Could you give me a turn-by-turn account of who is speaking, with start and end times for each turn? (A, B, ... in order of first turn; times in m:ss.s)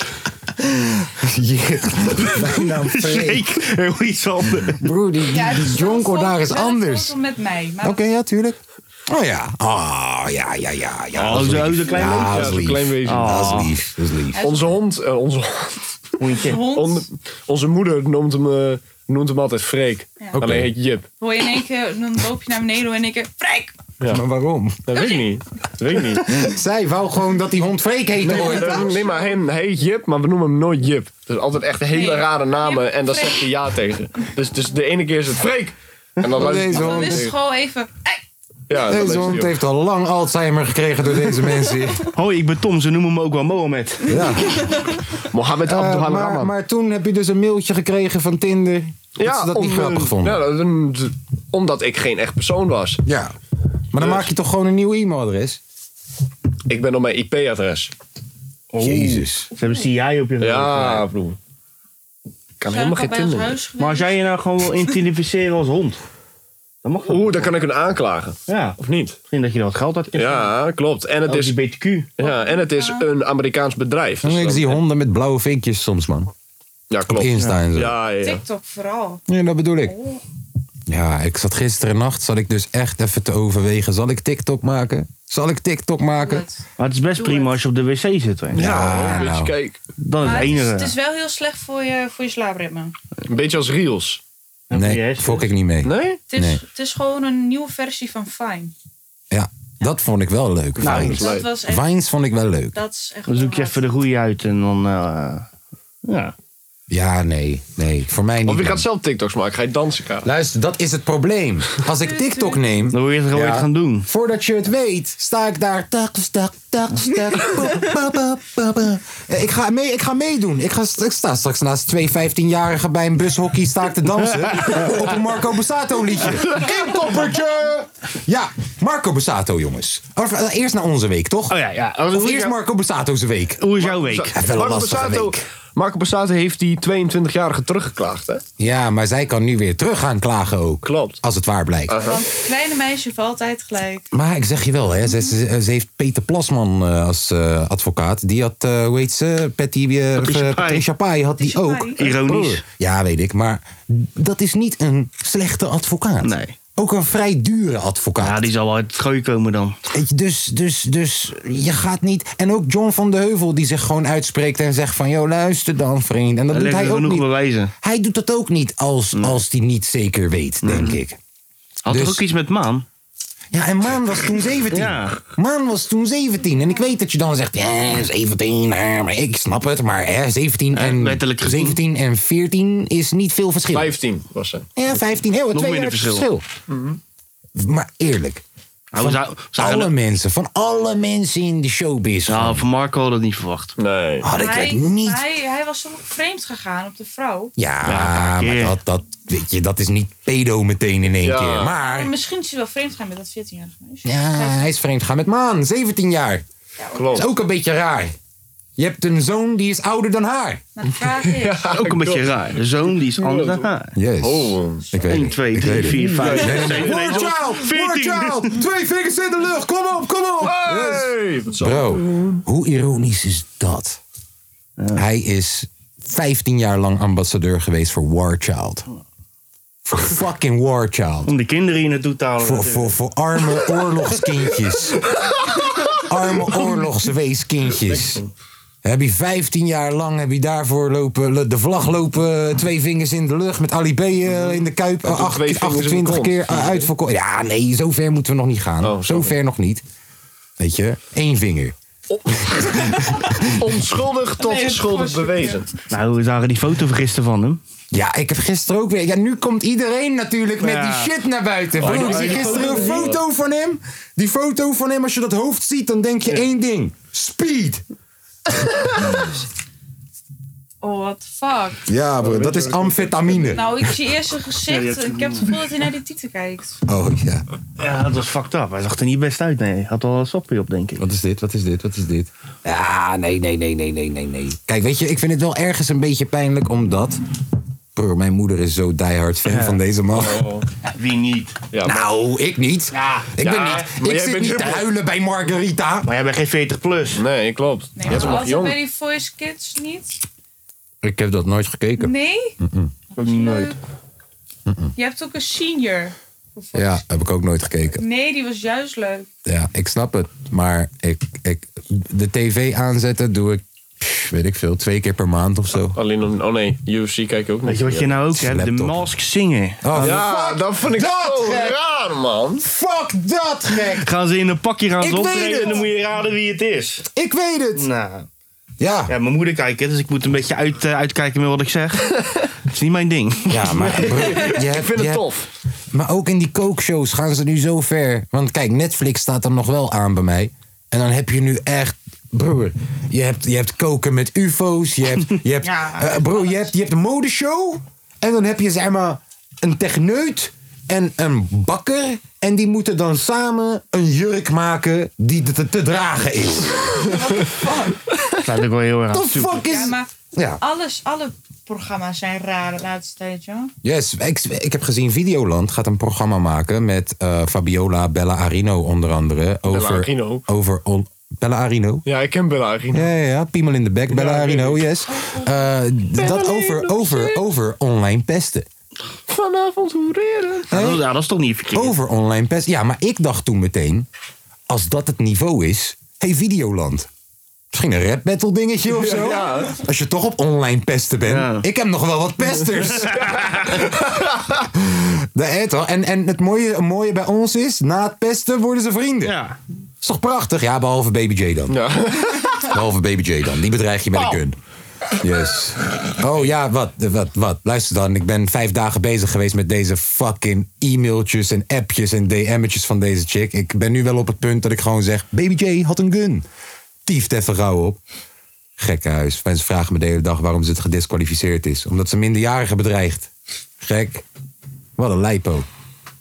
0:00.6-0:03.5 A
0:02.4-0:04.8 B
0:04.6-0:07.2 A
0:05.3-0:08.0 C
0:07.8-0:14.5 A
0:11.2-0:12.5 B
0:12.3-0:13.4 D
0:13.0-0:13.8 B
0:14.3-0:14.8 C
0:14.4-0:15.8 D
0:16.2-0:16.6 B
0:16.4-0:17.1 C
0:16.6-0:21.1 D
0:20.4-0:20.7 A
0:21.2-0:23.7 C
0:24.1-0:24.8 A
0:24.9-0:26.3 D
0:26.3-0:29.0 A
0:28.2-0:37.4 D
0:28.4-0:29.3 C
0:31.9-0:33.5 C
0:36.4-0:37.3 A
0:36.4-0:38.2 C
0:38.7-0:39.6 D
0:38.8-0:39.0 C
0:38.8-0:42.1 A
0:42.1-0:44.1 B
0:44.1-0:44.7 A
0:44.4-0:45.0 C
0:45.3-0:46.5 D
0:45.6-0:50.4 A
0:49.2-0:53.0 D
0:53.0-0:53.3 A
0:53.9-0:55.6 A
0:54.0-0:54.3 D
0:56.7-0:57.9 D
0:58.7-1:01.1 B
0:58.8-0:59.5 A
1:00.4-1:01.4 D
1:02.6-1:03.6 D
1:02.7-1:04.2 C
1:03.8-1:06.0 B
1:06.8-1:07.5 B
1:07.1-1:09.2 D
1:08.5-1:08.8 B
1:09.3-1:10.5 B
1:10.2-1:11.6 D
1:11.3-1:12.1 B
1:12.2-1:14.8 D
1:12.2-1:13.1 C
1:14.2-1:16.3 A
1:16.9-1:18.4 D
1:17.1-1:18.0 A
1:18.2-1:19.2 C
1:19.3-1:20.0 A
1:19.8-1:20.2 C
1:20.9-1:26.4 A
1:26.2-1:26.6 C
1:26.8-1:29.2 B
1:27.2-1:27.6 C
1:28.5-1:29.8 D
1:28.6-1:29.5 A
1:30.0-1:30.9 B
1:30.2-1:32.9 C
1:33.3-1:34.2 D
1:34.7-1:35.5 B
1:34.7-1:36.6 A
1:35.8-1:36.2 D
1:36.3-1:38.7 C
1:39.3-1:42.8 A
1:40.8-1:41.5 D
1:40.8-1:41.2 B
1:41.0-1:41.9 C
1:42.7-1:43.8 C
1:43.3-1:45.5 B
1:46.0-1:46.3 B
1:46.9-1:48.8 A
1:48.5-1:50.3 D
1:50.2-2:11.6 A
1:52.0-1:52.6 C
1:52.9-1:54.1 B
2:11.5-2:12.6 B
2:12.1-2:13.6 A
2:13.6-2:14.4 B
2:13.8-2:18.4 D
2:14.3-2:15.4 A
2:18.6-2:22.0 A
2:20.8-2:21.2 D
2:21.9-2:22.2 D
2:21.9-2:24.1 C
2:24.1-2:38.5 A
2:25.0-2:25.3 C
2:30.2-2:30.8 B
2:31.4-2:32.0 C
2:32.0-2:32.6 B
2:36.2-2:36.6 B
2:38.2-2:39.8 B
2:39.9-2:47.3 A
2:46.5-2:47.7 B
2:47.8-2:51.2 A
2:50.6-2:51.0 B
2:51.8-2:52.9 B
2:51.9-2:52.2 A
2:53.5-3:04.0 A
2:54.7-2:55.2 B
3:00.7-3:01.8 B
3:03.7-3:04.7 D
3:04.8-3:06.4 A
3:05.5-3:06.3 B
3:06.7-3:07.0 D
3:07.6-3:08.4 A
3:08.9-3:09.9 B
3:09.0-3:12.6 A
3:12.3-3:13.7 B
3:13.8-3:14.3 D
3:14.2-3:15.2 A
3:14.3-3:17.5 C
3:17.6-3:22.1 A
3:17.8-3:18.8 B
3:21.2-3:21.8 D
3:21.8-3:24.6 C
3:24.0-3:26.4 A
3:26.8-3:27.3 C
3:27.0-3:27.3 D
3:27.1-3:28.2 A
3:28.8-3:30.6 A
3:30.8-3:31.7 C
3:31.2-3:32.4 D
3:31.7-3:34.0 B
3:32.9-3:33.7 D
3:34.0-3:44.0 A
3:34.2-3:34.8 D
3:35.0-3:38.6 B
3:35.8-3:37.4 D
3:40.4-3:42.4 D
3:45.0-3:48.8 A
3:49.9-3:51.3 A
3:51.3-3:52.9 B
3:52.4-3:55.0 A
3:56.0-3:58.2 A
3:57.9-3:58.2 D
3:58.8-4:09.8 A
4:05.0-4:06.9 D
4:08.8-4:09.3 D
4:10.6-4:11.8 A
4:12.1-4:12.8 D
4:12.4-4:13.6 A
4:13.5-4:15.7 D
4:14.4-4:15.7 C
4:15.9-4:17.6 B
4:17.9-4:27.8 A
4:20.6-4:21.2 B
4:21.8-4:23.2 D
4:21.8-4:23.1 B
4:30.8-4:31.8 C
4:31.9-4:33.8 A
4:32.3-4:33.6 D
4:33.5-4:36.8 C
4:34.7-4:35.5 B
4:36.9-4:37.4 A
4:37.8-4:41.0 B
4:41.0-4:47.2 A
4:48.0-4:50.5 A
4:49.5-4:49.8 B
4:50.2-4:50.7 D
4:50.8-4:51.6 B
4:51.7-4:52.1 D
4:51.8-4:56.1 A
4:52.9-4:53.8 B
4:53.4-4:54.8 D
4:56.0-4:57.2 B
4:57.2-4:58.8 D
4:58.0-5:00.2 C
4:58.1-4:58.4 A
5:01.0-5:02.9 A
5:02.0-5:02.6 C
5:03.2-5:03.8 B
5:03.2-5:03.8 C
5:04.7-5:04.9 A
5:05.0-5:07.0 C
5:06.8-5:08.0 A
5:08.0-5:09.3 C
5:09.4-5:16.0 A
5:16.0-5:18.2 D
5:17.6-5:20.0 B
5:18.3-5:19.1 A
5:19.8-5:21.8 A
5:20.0-5:22.6 D
5:22.6-5:24.1 A
5:24.0-5:27.1 B
5:25.0-5:25.9 A
5:27.1-5:27.9 A
5:27.8-5:28.3 B
5:28.8-5:29.1 A
5:29.1-5:34.3 B
5:33.5-5:35.3 A
5:34.1-5:35.5 D
5:35.9-5:57.1 A
5:57.0-5:58.2 C
5:58.4-5:59.6 B
5:59.1-6:00.6 A
5:59.6-6:00.1 C
6:00.6-6:03.7 C
6:03.8-6:12.0 A
6:09.7-6:10.4 D
6:12.1-6:13.1 D
6:12.9-6:18.7 A
6:14.1-6:14.9 D
6:15.1-6:15.6 C
6:16.2-6:17.4 D
6:19.3-6:20.7 D
6:20.7-6:21.9 B
6:20.7-6:21.0 A
6:21.7-6:24.1 A
6:24.7-6:27.1 A
6:27.7-6:33.4 A
6:28.9-6:29.8 D
6:31.3-6:31.7 B
6:33.1-6:34.4 D
6:34.7-6:39.4 A
6:39.2-6:39.6 B
6:40.0-6:41.8 A
6:41.7-6:42.7 D
6:42.6-6:44.6 A
6:45.2-6:56.4 A
6:57.1-6:58.0 A
6:58.8-7:04.2 A
7:05.0-7:05.7 A